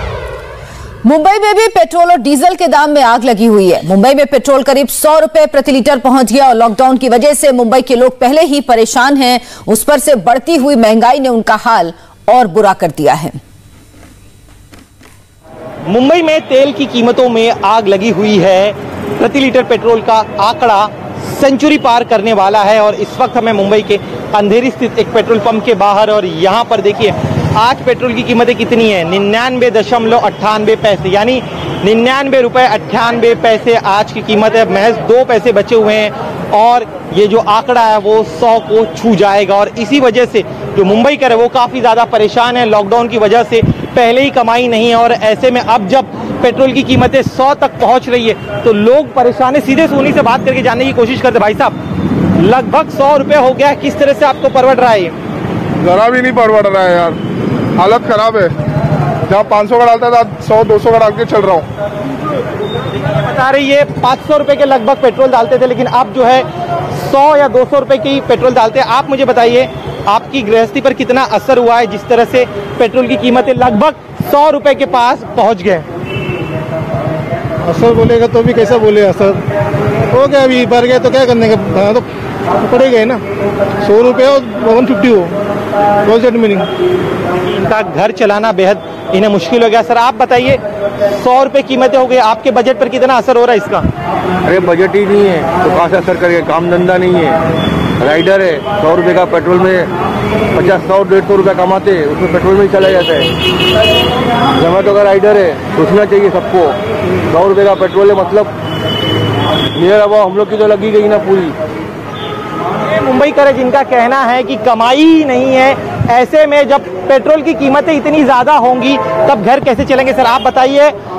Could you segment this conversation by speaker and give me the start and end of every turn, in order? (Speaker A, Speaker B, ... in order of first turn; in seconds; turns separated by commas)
Speaker A: 1.0-13.4, Speaker B: 15.9-51.7, Speaker B: 52.4-55.1, Speaker C: 55.8-57.2, Speaker C: 57.8-58.5, Speaker C: 59.3-61.7, Speaker B: 63.0-75.8, Speaker D: 77.6-79.4, Speaker D: 80.1-82.1, Speaker D: 82.6-83.2, Speaker D: 83.8-85.3, Speaker D: 86.0-86.7, Speaker B: 87.5-90.6, Speaker B: 91.1-93.9, Speaker E: 94.5-97.4, Speaker E: 98.0-99.9, Speaker E: 100.5-103.3, Speaker E: 104.6-106.8, Speaker E: 107.3-108.5, Speaker E: 109.8-111.5, Speaker B: 112.9-120.9